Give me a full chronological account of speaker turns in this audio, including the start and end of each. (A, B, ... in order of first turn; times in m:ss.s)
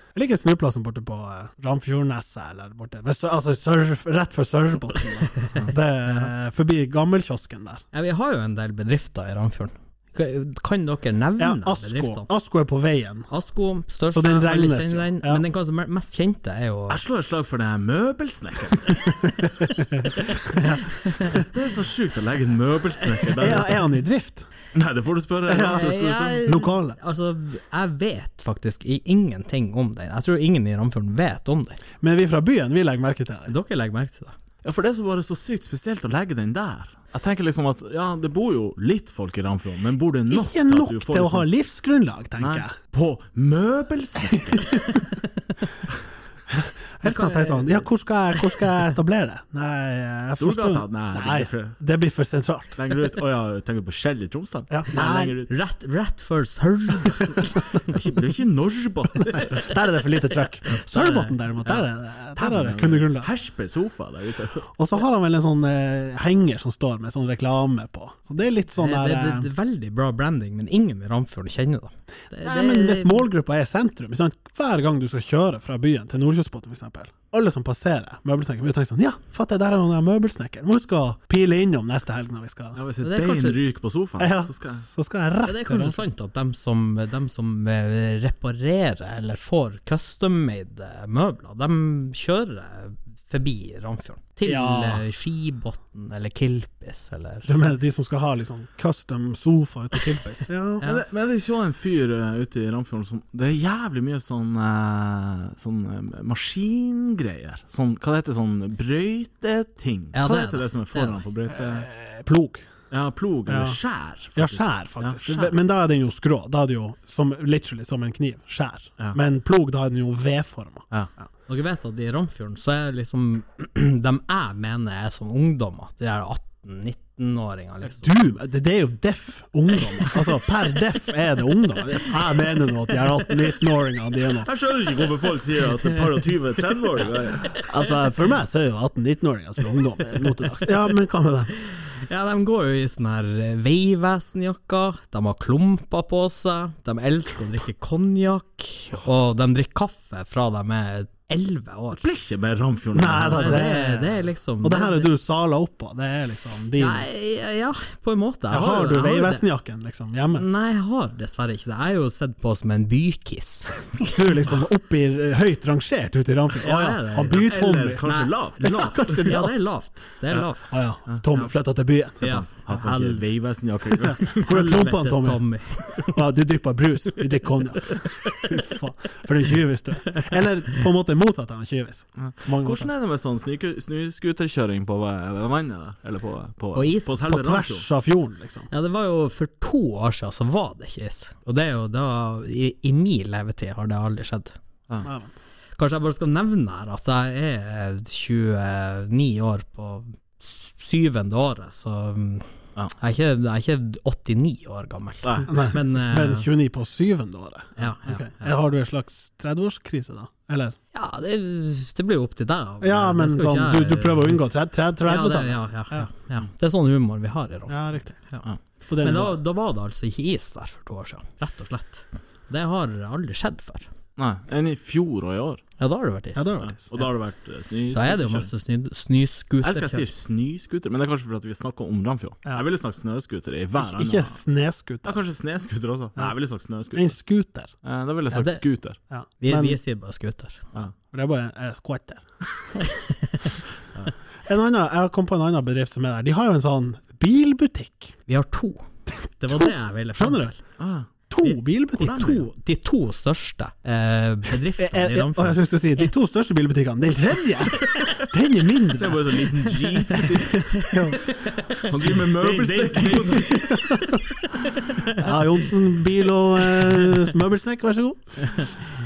0:00.2-0:07.8 A
0:07.9-0:12.3 B
0:11.4-0:13.3 A
0:13.3-0:17.0 B
0:14.1-0:15.4 A
0:16.9-0:19.4 C
0:19.6-0:21.4 A
0:20.9-0:21.5 B
0:21.3-0:23.8 C
0:23.4-0:24.5 A
0:24.7-0:26.4 C
0:25.5-0:27.0 A
0:25.5-0:31.8 B
0:32.0-0:33.5 A
0:33.5-0:34.3 B
0:34.6-0:41.5 C
0:40.3-0:42.7 A
0:42.4-0:45.0 C
0:44.3-0:44.8 A
0:46.5-0:52.8 A
0:47.0-0:47.8 B
0:50.4-0:51.8 C
0:52.8-0:55.5 C
0:54.7-0:55.3 A
0:55.5-0:57.9 B
0:57.8-0:59.7 C
0:59.5-1:03.3 A
1:00.7-1:01.8 B
1:02.4-1:04.7 C
1:04.7-1:09.5 A
1:08.8-1:13.3 B
1:12.4-1:22.8 A
1:22.8-1:24.8 C
1:23.0-1:23.6 B
1:24.2-1:26.0 A
1:25.4-1:37.5 B
1:34.4-1:35.0 A
1:37.5-1:40.8 A
1:40.8-1:51.9 C
1:50.1-1:51.2 B
1:51.5-1:52.7 A
1:52.9-1:55.5 C
1:53.5-1:53.8 A
1:54.4-2:00.9 A
2:01.5-2:08.4 B
2:07.8-2:14.5 A
2:14.4-2:17.5 C
2:17.5-2:21.5 A
2:21.7-2:32.0 B
2:32.0-2:33.7 C
2:32.9-2:37.1 A
2:33.2-2:35.1 B
2:36.8-2:39.4 B
2:38.5-2:40.5 A
2:40.4-2:44.2 B
2:44.0-2:48.0 A
2:46.6-2:47.5 B
2:47.3-2:48.8 C
2:48.0-2:50.8 B
2:48.6-2:49.5 A
2:50.3-2:52.4 A
2:52.2-2:53.2 B
2:52.3-2:54.6 C
2:54.1-2:55.4 A
2:54.2-2:56.2 B
2:56.0-3:02.9 A
2:58.2-2:58.5 B
3:02.2-3:07.9 C
3:06.8-3:07.2 B
3:07.3-3:08.7 A
3:08.7-3:14.6 B
3:15.0-3:15.3 A
3:15.8-3:26.5 B
3:25.2-3:25.5 C
3:25.5-3:30.8 A
3:27.8-3:28.5 B
3:30.9-3:34.5 B
3:32.8-3:36.1 A
3:35.0-3:38.5 B
3:37.7-3:38.2 A
3:38.9-3:39.4 A
3:39.0-3:43.9 B
3:44.2-3:45.6 C
3:45.8-3:46.5 B
3:46.4-3:46.9 A
3:46.6-3:48.5 C
3:47.9-3:50.1 B
3:49.6-3:54.4 C
3:53.8-3:55.2 A
3:55.0-3:57.1 C
3:56.9-3:57.7 A
3:57.8-3:59.0 C
3:58.3-3:58.6 B
3:59.1-3:59.8 A
3:59.4-4:00.6 B
4:01.1-4:02.2 A
4:02.8-4:03.6 B
4:04.4-4:08.2 A
4:08.3-4:08.8 B
4:09.4-4:10.6 B
4:09.5-4:10.5 A
4:10.8-4:12.4 C
4:11.3-4:12.4 A
4:12.0-4:15.8 B
4:14.8-4:19.6 A
4:18.9-4:20.7 C
4:19.9-4:25.3 B
4:20.2-4:24.2 A
4:21.9-4:23.5 C
4:25.1-4:28.7 A